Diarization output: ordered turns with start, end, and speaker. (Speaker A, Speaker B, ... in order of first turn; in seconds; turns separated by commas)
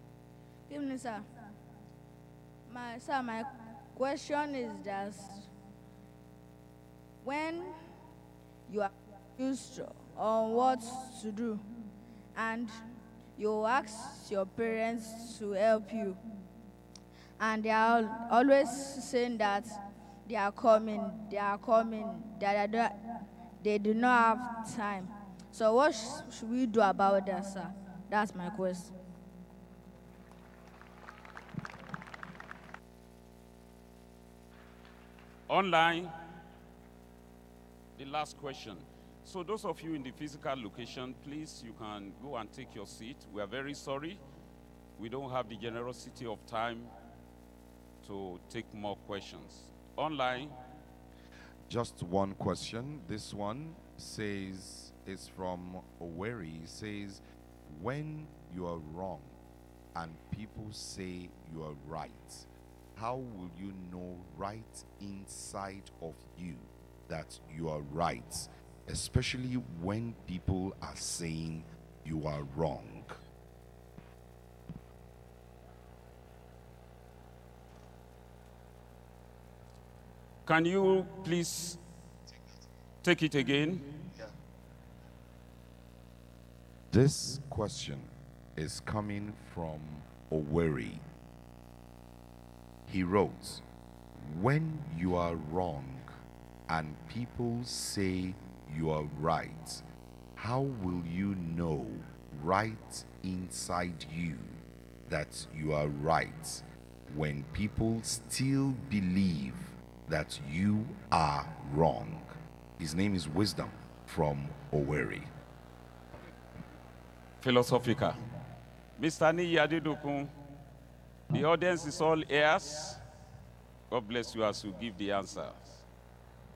Speaker A: 0.7-1.2, Speaker A: 2.7-5.5, Speaker A: 7.2-7.8, Speaker A: 8.7-11.6, Speaker A: 12.3-16.2, Speaker A: 17.4-23.0, Speaker A: 23.6-28.9, Speaker B: 35.5-36.1, Speaker B: 38.0-44.2, Speaker B: 45.0-46.9, Speaker B: 48.0-50.6, Speaker C: 51.7-59.4, Speaker C: 59.9-73.2, Speaker B: 80.5-81.8, Speaker B: 83.0-83.8, Speaker C: 86.9-91.0, Speaker C: 92.9-93.6, Speaker C: 94.2-96.1, Speaker C: 96.7-99.8, Speaker C: 100.4-115.3, Speaker B: 117.4-118.2, Speaker B: 119.0-120.3, Speaker B: 121.3-123.0, Speaker B: 123.9-125.8